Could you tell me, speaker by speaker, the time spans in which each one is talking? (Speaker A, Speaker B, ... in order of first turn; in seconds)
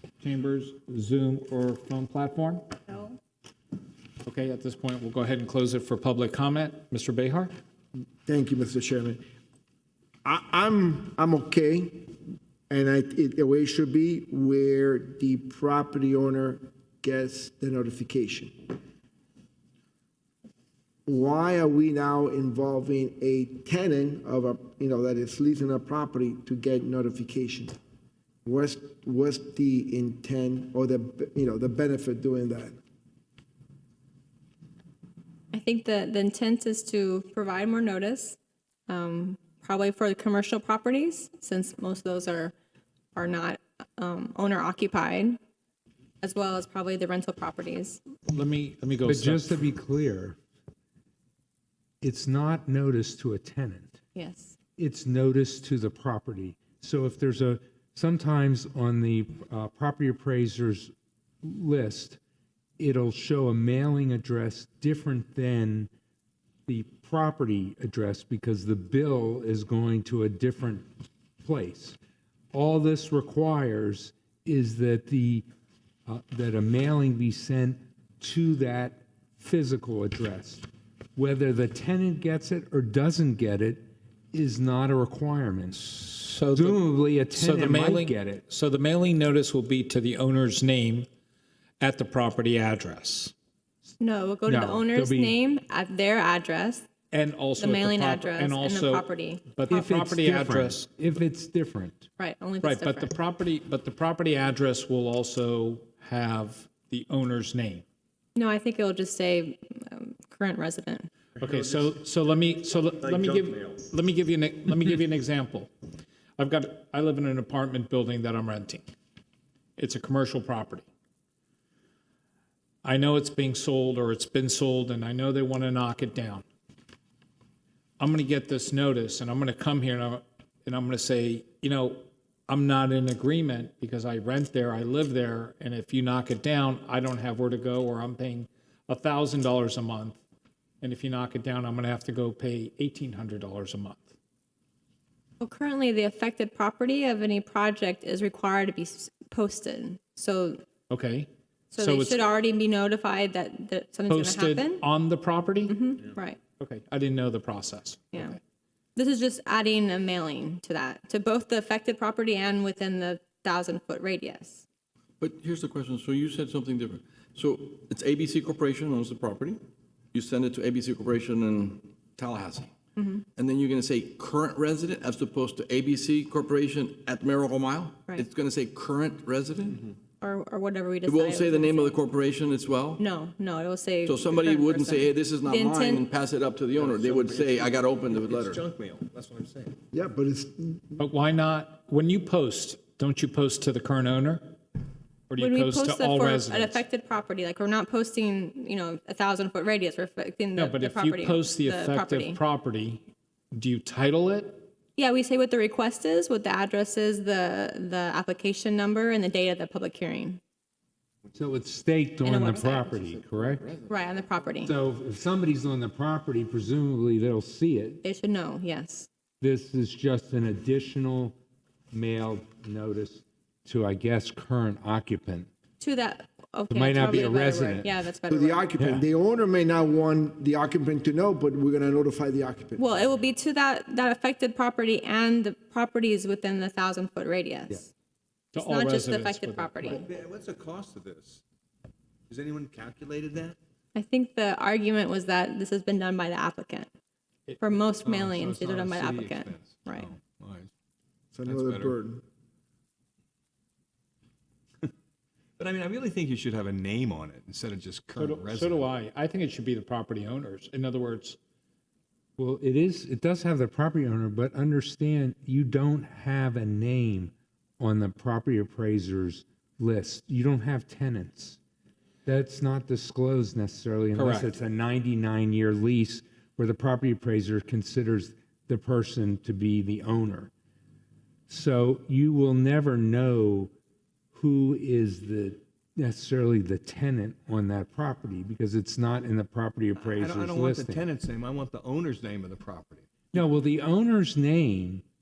Speaker A: 0.2-2.6, 4.2-7.5, 48.3-49.5, 86.2-91.1, 91.8-93.3, 97.1-100.9, 102.6-107.8, 111.4-115.7, 116.4-118.9, 119.8-120.9, 122.8-126.5, 128.0-140.2, 140.8-144.1, 150.9-152.2, 154.1-155.8, 156.6-158.3, 191.0-194.5, 195.3-196.8, 200.6-204.7, 238.5-240.0, 258.2-261.4, 274.1-274.5
Speaker B: 8.3-9.2, 10.2-12.1, 12.7-18.5, 21.1-27.8, 28.4-32.8, 189.9-190.9, 228.3-233.0, 251.3-252.2
Speaker C: 35.5-38.4, 38.9-42.5, 43.1-45.4, 46.2-48.0, 54.1-54.5, 94.0-96.9, 97.6-99.5, 102.2-103.1, 108.3-111.1, 145.4-150.6, 151.7-154.8, 155.7-156.4, 159.0-164.7, 173.0-173.2, 180.2-182.0, 183.0-186.1, 195.4-202.4, 205.0-210.4, 212.2-213.1, 213.9-214.8, 218.0-219.1, 225.8-228.7, 232.8-237.9, 238.6-240.1, 243.9-246.9, 247.6-250.1
Speaker D: 49.1-50.4, 52.0-54.0, 54.8-62.2, 62.8-65.9, 66.7-70.9, 71.4-72.0, 72.5-75.5, 76.1-88.4, 94.5-95.4, 99.7-102.1, 211.3-213.7, 214.6-218.0, 219.4-221.4, 221.9-225.5, 226.7-227.9, 228.8-229.0, 262.4-271.6, 272.3-280.5, 281.5-283.7, 284.3-291.1, 293.3-295.0
Speaker E: 165.2-169.6, 170.1-172.7, 173.3-179.8, 181.1-183.0, 184.1-188.6
Speaker F: 186.8-189.8, 239.8-241.4, 242.3-243.6, 248.0-250.7, 251.5-252.0, 255.6-258.9, 290.1-293.3